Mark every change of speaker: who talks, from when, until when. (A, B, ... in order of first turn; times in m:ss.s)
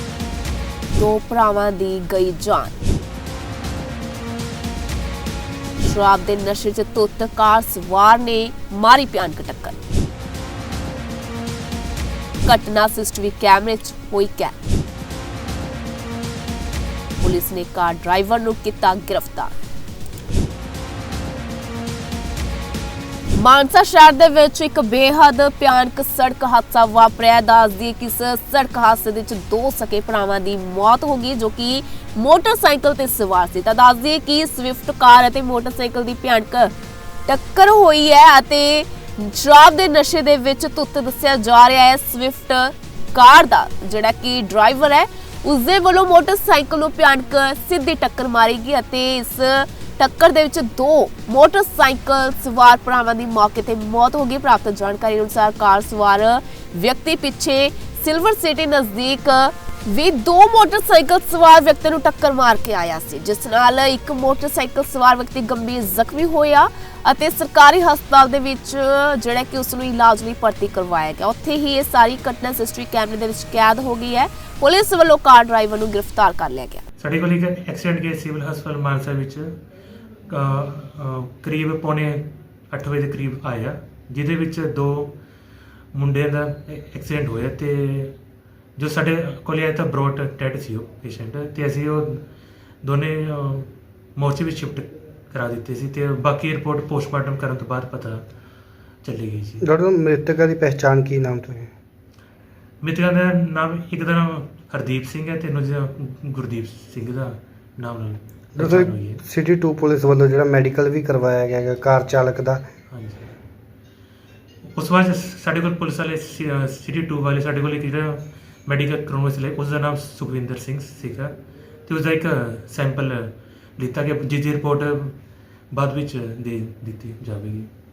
0:00.9-0:02.8 A
0:05.8-0:09.8 A
0:12.4-0:14.6 A
0:17.2-0:19.5 A
0:23.3-0:36.7 A
0:37.2-1:16.8 A
1:17.0-1:19.6 B
1:20.3-1:25.1 B
1:25.9-1:28.1 B
1:28.8-1:32.2 B
1:32.8-1:38.2 B
1:39.0-1:39.6 B
1:39.6-1:41.7 C
1:42.8-1:49.2 B
1:48.5-1:52.6 C
1:52.9-1:53.3 B
1:54.8-2:01.3 B
2:01.9-2:05.2 B
2:05.7-2:07.7 B